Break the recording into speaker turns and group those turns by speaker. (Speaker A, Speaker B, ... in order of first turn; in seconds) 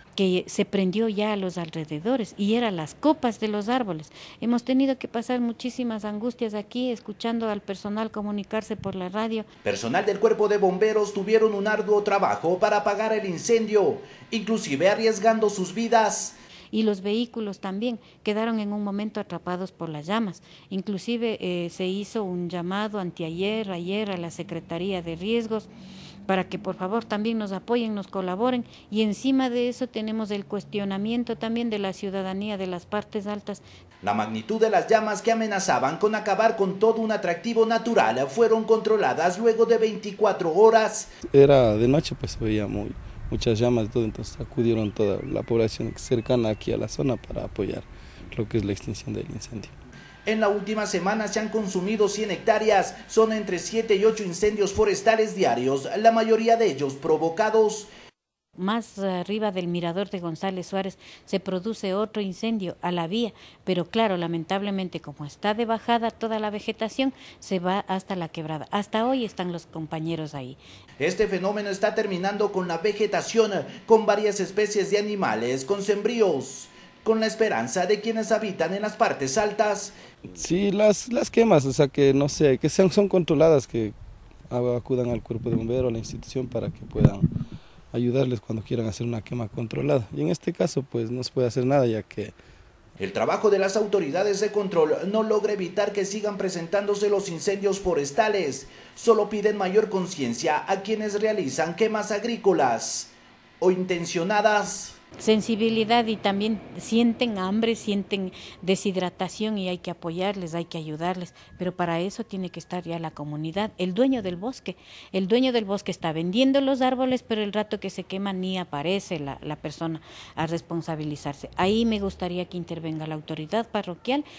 Speaker A: 0.2-9.5, 16.7-25.7, 26.3-33.6, 58.6-70.6, 105.2-124.3
Speaker B: 9.6-16.4, 34.0-41.1, 50.3-57.9, 71.0-80.0, 93.0-105.0
Speaker C: 41.3-49.7, 80.3-84.0, 84.5-87.3, 87.9-92.3